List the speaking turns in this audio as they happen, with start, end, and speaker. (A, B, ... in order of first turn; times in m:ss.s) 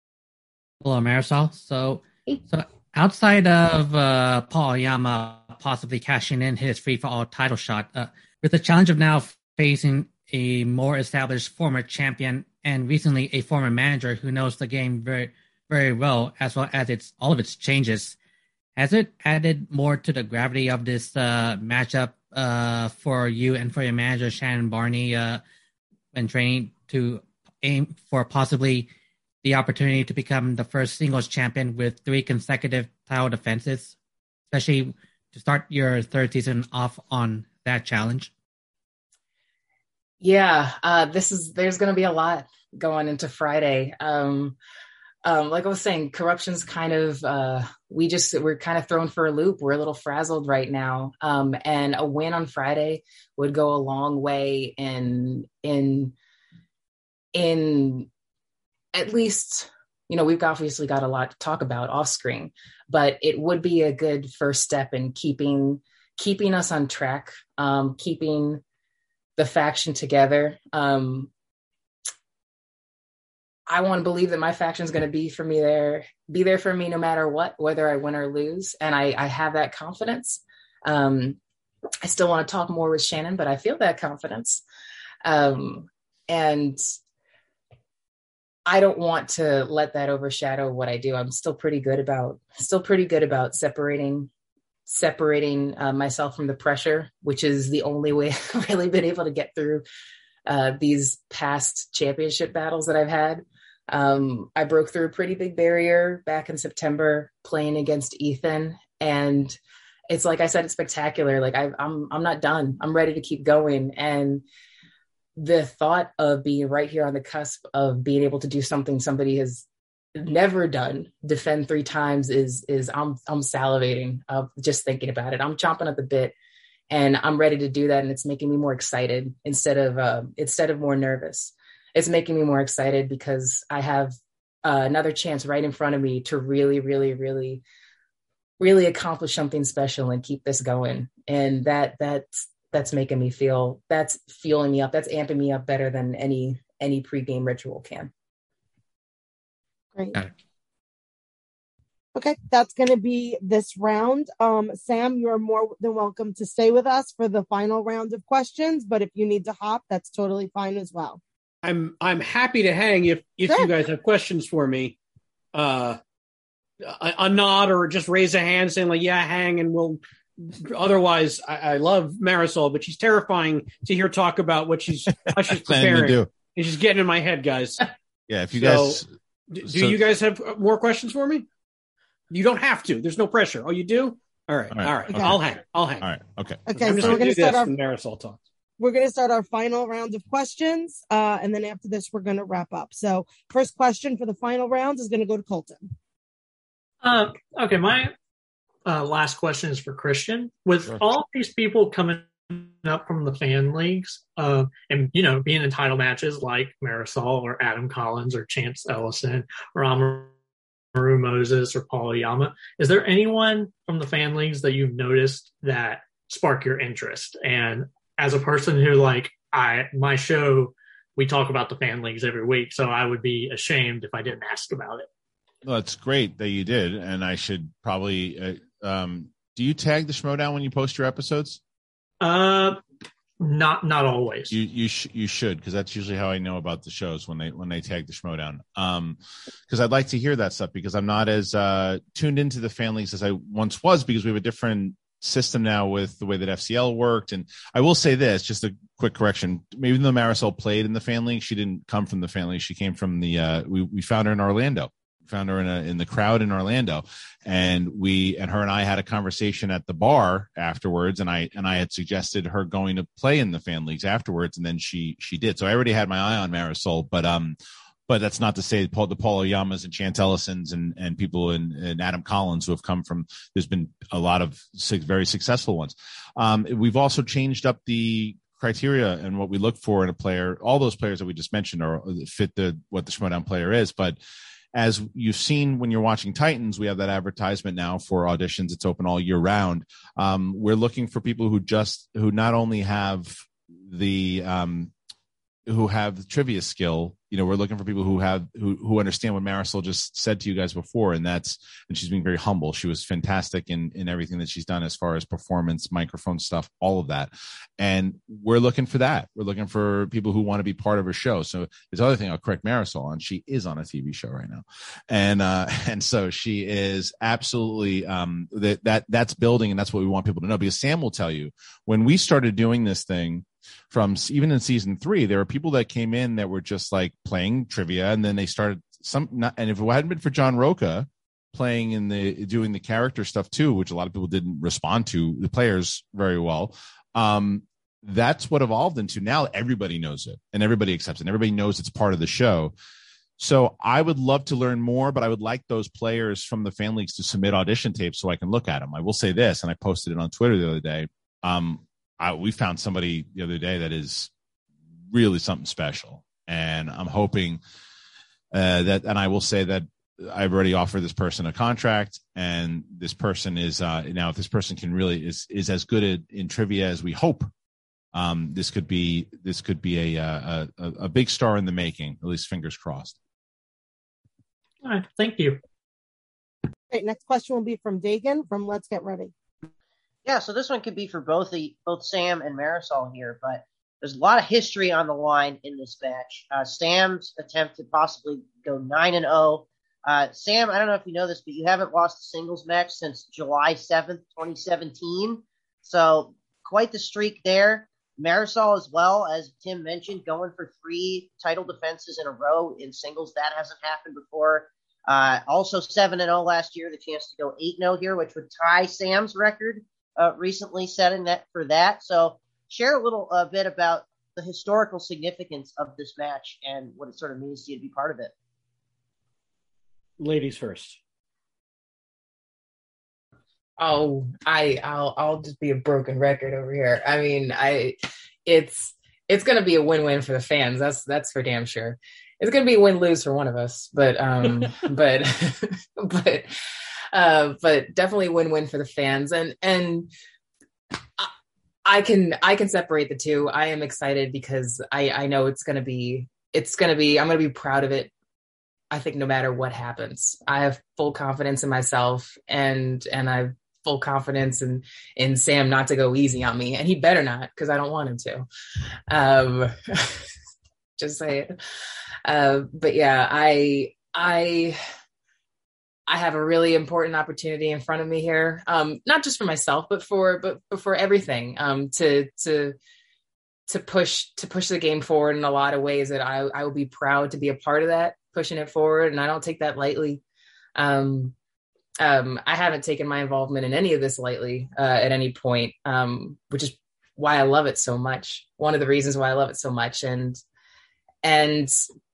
0:00.8-0:18.2 A
0:18.8-0:25.4 A
0:26.1-0:28.9 A
0:29.4-0:33.9 A
0:34.5-0:38.3 A
0:40.2-0:44.6 B
0:45.2-0:56.1 B
0:57.3-0:58.1 B
0:58.9-1:08.6 B
1:09.4-1:11.3 B
1:13.7-1:21.4 B
1:22.0-1:24.6 B
1:25.2-1:26.8 B
1:28.6-1:34.3 B
1:34.8-1:39.8 B
1:40.5-1:49.6 B
1:50.1-1:54.4 B
1:55.4-1:59.6 B
2:00.2-2:06.3 B
2:06.9-2:17.6 B
2:18.6-2:28.1 B
2:32.1-2:41.2 C
2:41.6-2:45.0 D
2:43.5-2:43.7 C
2:45.5-2:46.0 D
2:46.8-2:57.9 D
2:55.3-2:56.3 E
2:58.3-2:59.1 E
2:58.5-3:01.4 D
2:59.6-3:00.0 E
3:02.3-3:06.1 D
3:04.7-3:05.4 E
3:06.0-3:07.2 E
3:06.7-3:07.7 C
3:06.8-3:08.4 D
3:08.8-3:15.9 C
3:17.0-3:18.1 F
3:18.8-3:30.3 F
3:30.9-3:45.1 F
3:45.6-3:51.6 E
3:52.2-3:52.8 F
3:53.4-3:54.5 F
3:54.5-3:59.2 E
3:59.7-4:27.6 E
4:28.1-4:44.2 E
4:44.7-4:54.9 E
4:55.7-5:42.7 E
5:43.4-5:54.3 E
5:55.1-5:57.6 E
5:58.5-6:07.5 E
6:08.1-6:13.2 E
6:14.8-6:15.6 F
6:16.9-6:19.3 C
6:20.2-6:58.3 G
7:00.2-7:01.0 D
7:03.8-7:16.6 B
7:17.1-7:20.1 B
7:21.8-7:28.1 B
7:28.9-7:38.4 B
7:39.1-7:40.2 B
7:41.0-7:41.5 B
7:42.2-7:44.8 B
7:46.1-7:52.8 B
7:53.7-8:00.2 B
8:00.8-8:01.3 B
8:02.0-8:10.4 B
8:11.2-8:11.8 B